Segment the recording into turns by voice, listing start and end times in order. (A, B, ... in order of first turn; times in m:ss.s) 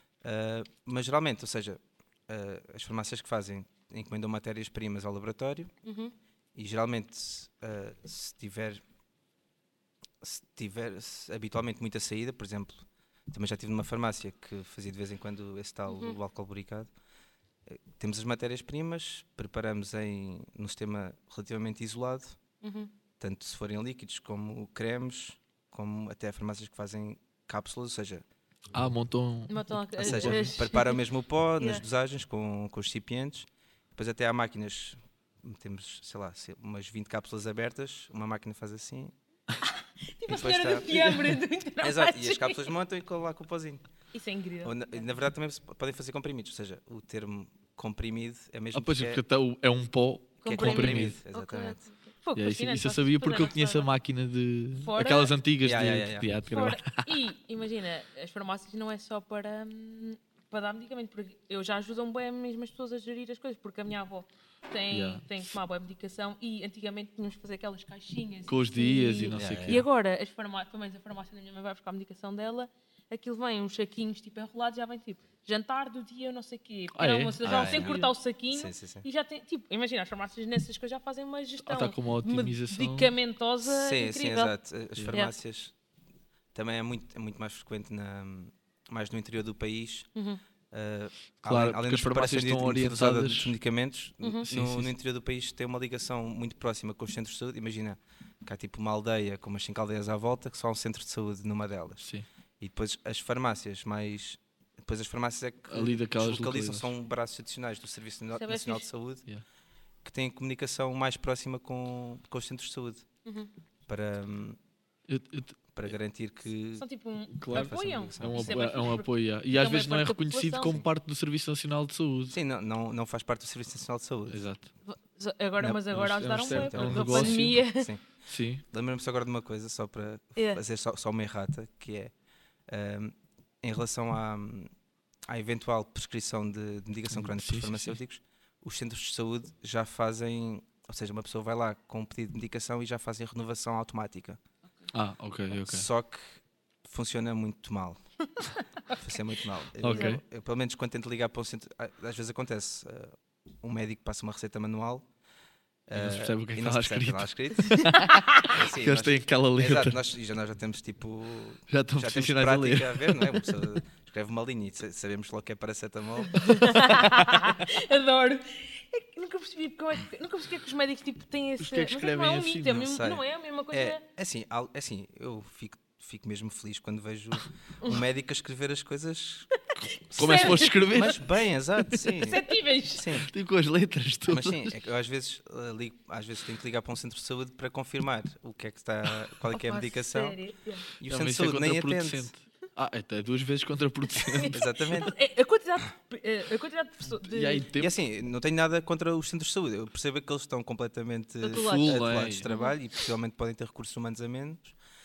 0:00.2-0:05.7 A
0:05.8-0:06.1 B
0:06.6-0:08.8 A
0:10.2-0:16.9 A
0:15.9-0:16.2 B
0:17.7-0:22.4 A
0:22.6-0:22.9 B
0:23.2-0:28.2 A
0:28.7-0:30.5 C
0:29.5-0:31.0 B
0:30.0-0:39.1 A
0:31.6-0:31.8 B
0:39.6-0:42.7 B
0:40.3-0:41.2 A
0:41.8-0:43.8 A
0:44.1-0:45.1 B
0:44.6-0:49.2 A
0:48.7-0:51.2 C
0:50.4-0:53.9 B
0:50.4-0:51.8 A
0:52.4-0:57.2 C
0:54.8-0:55.3 B
0:55.6-0:56.3 A
0:56.5-1:24.5 B
1:04.9-1:05.6 C
1:08.5-1:09.9 C
1:09.4-1:09.8 A
1:16.9-1:18.1 C
1:17.4-1:19.1 A
1:21.6-1:23.1 C
1:23.6-1:25.7 A
1:26.5-1:30.1 A
1:30.7-1:42.1 A
1:31.4-1:33.5 C
1:34.2-1:34.5 B
1:34.5-1:34.9 C
1:42.6-1:49.3 A
1:45.7-1:46.9 C
1:48.4-1:48.9 B
1:50.0-1:53.1 A
1:53.2-1:53.5 B
1:53.9-1:54.6 A
1:55.1-1:55.6 C
1:55.7-1:56.9 A
1:56.8-2:00.8 B
1:57.3-2:02.4 C
1:57.5-1:58.6 A
2:02.3-2:04.4 A
2:04.3-2:04.7 C
2:04.9-2:07.9 B
2:05.9-2:07.6 C
2:06.3-2:08.0 A
2:08.3-2:08.6 C
2:08.6-2:12.1 A
2:10.4-2:10.6 B
2:12.7-2:14.7 A
2:15.3-2:24.4 A
2:17.1-2:18.0 C
2:24.9-2:25.9 C
2:25.5-2:28.0 A
2:29.0-2:35.1 A
2:29.8-2:30.2 C
2:35.9-2:37.9 A
2:36.0-2:40.0 C
2:37.8-2:38.5 B
2:38.5-2:46.5 A
2:41.7-2:43.4 C
2:46.3-2:54.0 B
2:46.7-2:47.5 C
2:51.6-2:52.8 C
2:52.7-2:59.5 A
3:00.0-3:01.2 B
3:00.1-3:02.4 A
3:00.2-3:01.2 C
3:01.9-3:03.2 B
3:02.9-3:03.3 A
3:03.2-3:04.7 C
3:04.3-3:10.4 A
3:09.5-3:10.9 B
3:11.0-3:12.3 A
3:11.1-3:14.6 C
3:14.2-3:17.7 B
3:14.5-3:15.1 A
3:17.2-3:17.9 C
3:17.8-3:24.8 A
3:21.4-3:22.8 B
3:21.4-3:22.5 C